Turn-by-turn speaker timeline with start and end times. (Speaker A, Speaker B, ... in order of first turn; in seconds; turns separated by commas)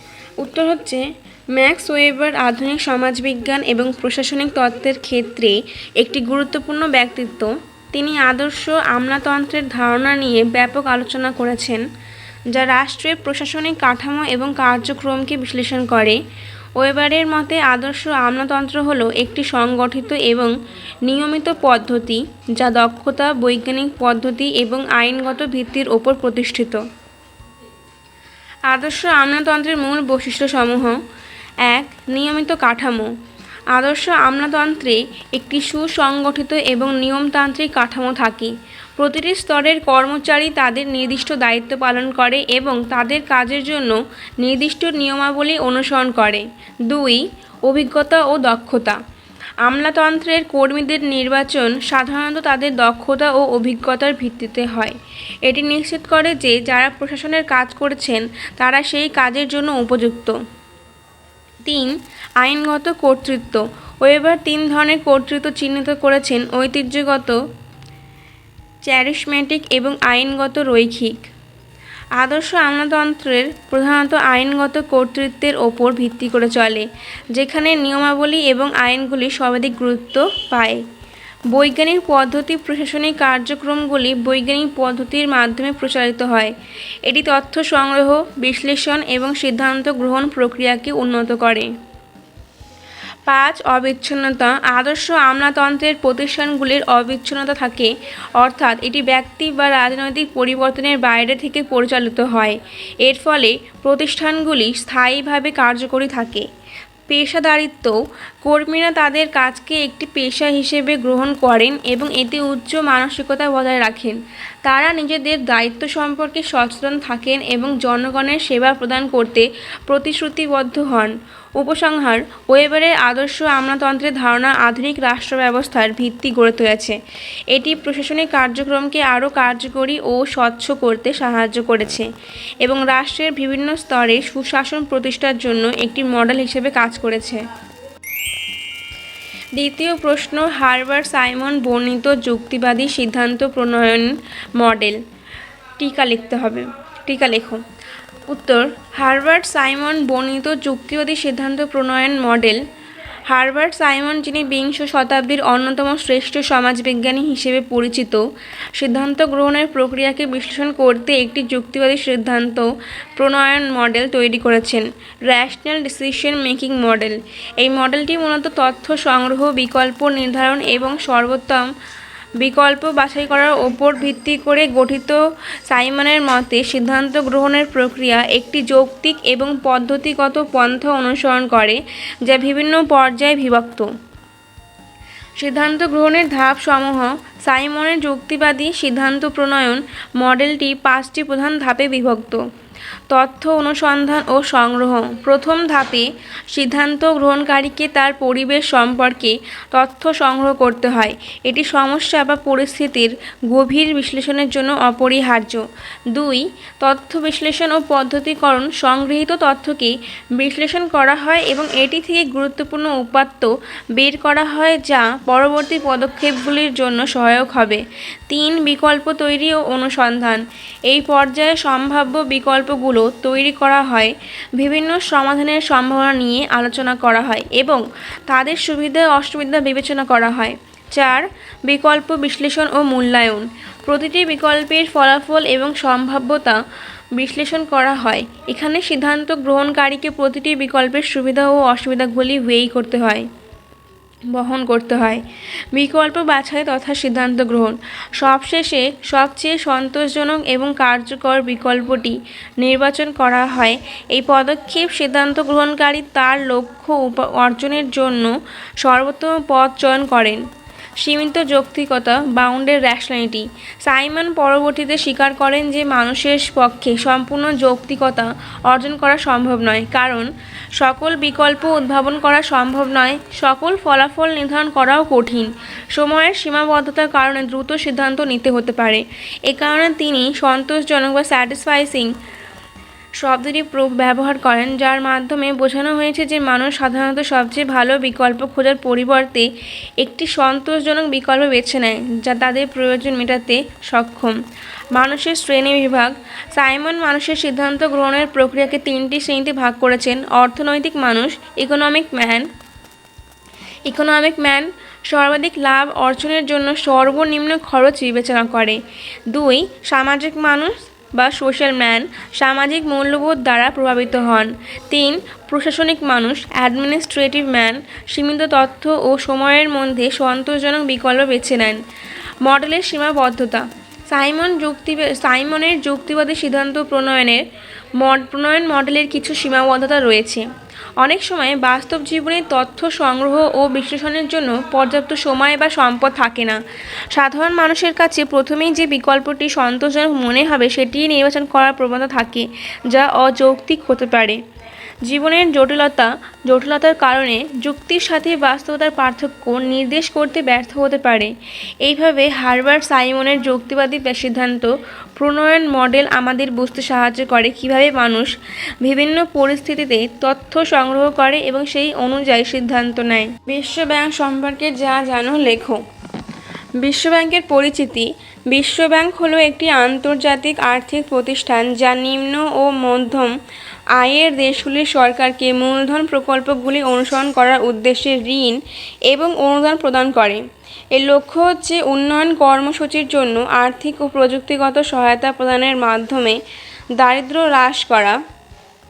Speaker A: 0.4-11.8, Speaker A: 12.5-16.2, Speaker A: 16.8-20.5, Speaker A: 21.1-26.8, Speaker A: 28.7-31.0, Speaker A: 31.6-33.1, Speaker A: 33.7-49.0, Speaker A: 49.6-60.4, Speaker A: 61.6-67.4, Speaker A: 68.8-71.3, Speaker A: 72.2-80.8, Speaker A: 81.5-86.5, Speaker A: 87.1-91.7, Speaker A: 93.3-106.5, Speaker A: 107.1-127.0, Speaker A: 127.5-132.1, Speaker A: 132.6-137.4, Speaker A: 139.6-145.0, Speaker A: 145.8-147.6, Speaker A: 148.3-152.6, Speaker A: 153.3-158.2, Speaker A: 158.8-171.7, Speaker A: 172.4-183.9, Speaker A: 185.4-192.4, Speaker A: 193.1-236.6, Speaker A: 237.2-243.3, Speaker A: 244.3-260.4, Speaker A: 261.0-282.1, Speaker A: 283.2-294.4, Speaker A: 294.9-302.5, Speaker A: 303.9-321.8, Speaker A: 322.4-327.4, Speaker A: 328.0-330.5, Speaker A: 331.0-344.4, Speaker A: 345.0-365.8, Speaker A: 366.8-373.3, Speaker A: 373.9-386.4, Speaker A: 387.0-388.2